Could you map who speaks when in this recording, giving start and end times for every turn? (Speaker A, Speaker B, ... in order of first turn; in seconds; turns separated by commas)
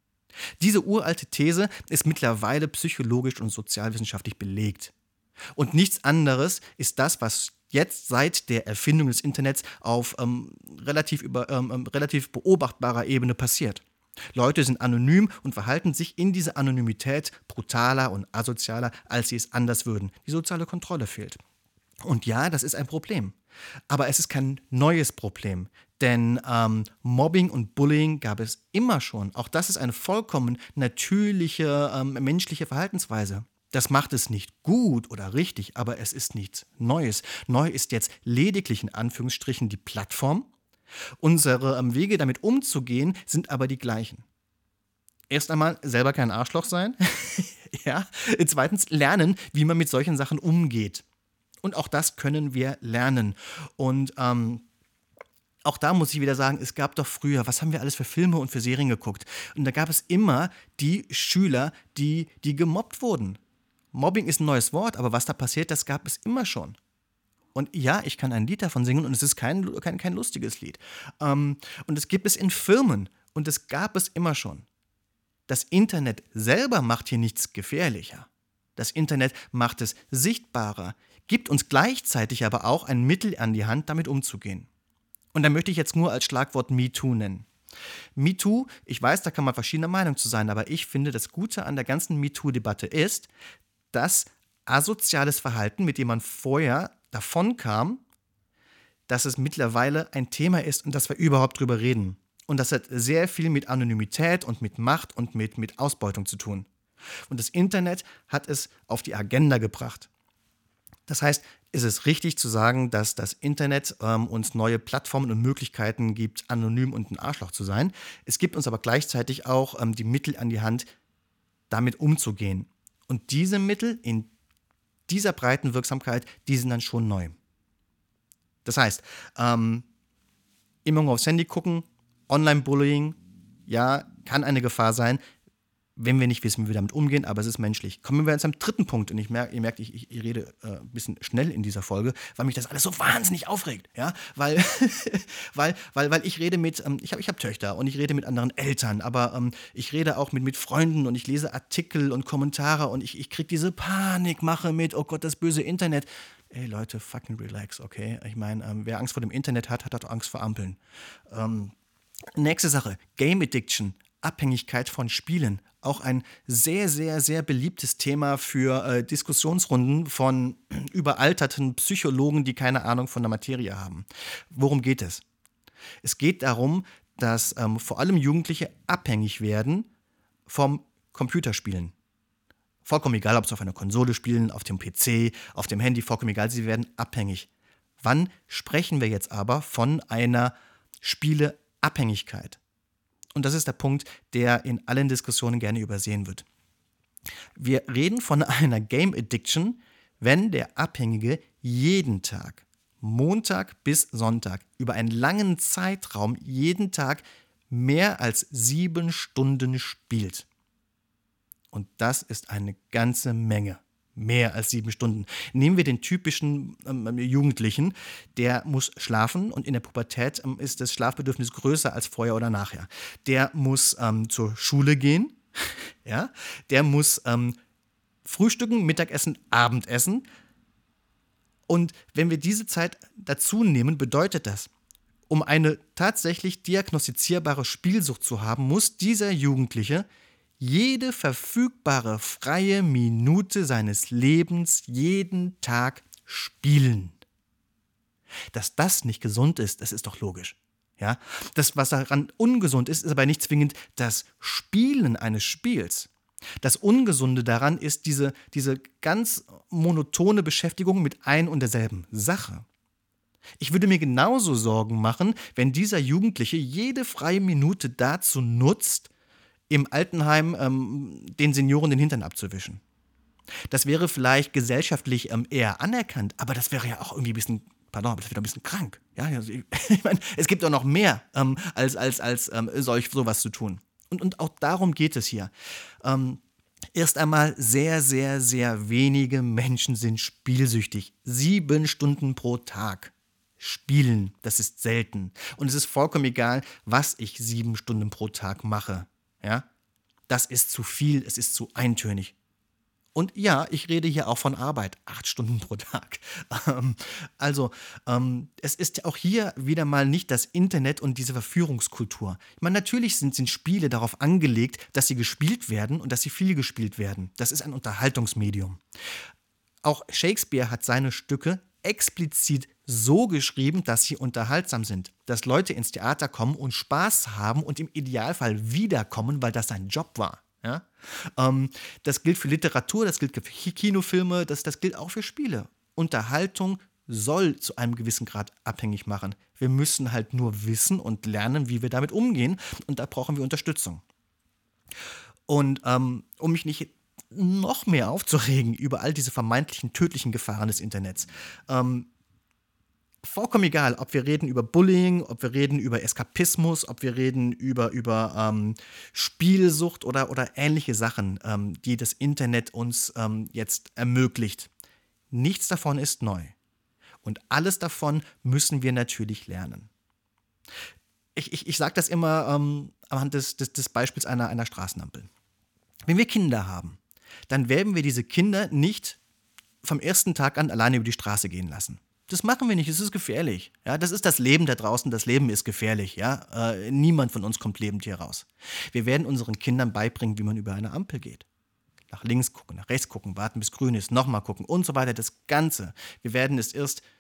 Speaker A: 0.6-4.9, Speaker A: 5.6-21.4, Speaker A: 22.0-23.4, Speaker A: 23.9-40.5, Speaker A: 41.2-44.2, Speaker A: 45.3-51.0, Speaker A: 51.6-54.6, Speaker A: 55.6-63.4, Speaker A: 63.9-66.8, Speaker A: 67.5-74.7, Speaker A: 75.5-84.7, Speaker A: 85.3-87.5, Speaker A: 88.2-93.3, Speaker A: 93.9-98.0, Speaker A: 99.1-106.7, Speaker A: 107.3-110.1, Speaker A: 111.1-120.9, Speaker A: 121.7-124.3, Speaker A: 125.1-127.4, Speaker A: 128.6-129.9, Speaker A: 130.8-135.2, Speaker A: 136.0-160.8, Speaker A: 161.3-161.8, Speaker A: 162.3-175.2, Speaker A: 176.0-179.9, Speaker A: 180.5-181.9, Speaker A: 182.8-187.5, Speaker A: 188.0-192.6, Speaker A: 193.3-196.4, Speaker A: 197.6-210.5, Speaker A: 211.7-227.6, Speaker A: 228.2-230.2, Speaker A: 231.7-234.7, Speaker A: 235.3-240.1, Speaker A: 240.6-247.2, Speaker A: 248.5-256.1, Speaker A: 256.6-262.6, Speaker A: 263.6-269.1, Speaker A: 269.7-272.8, Speaker A: 273.7-285.5, Speaker A: 286.0-286.4, Speaker A: 286.9-299.7, Speaker A: 300.3-302.4, Speaker A: 303.1-318.8, Speaker A: 319.8-344.0, Speaker A: 345.5-352.1, Speaker A: 353.2-364.7, Speaker A: 365.3-366.5, Speaker A: 367.2-369.9, Speaker A: 371.4-375.3, Speaker A: 376.1-379.2, Speaker A: 379.8-391.5, Speaker A: 392.1-397.0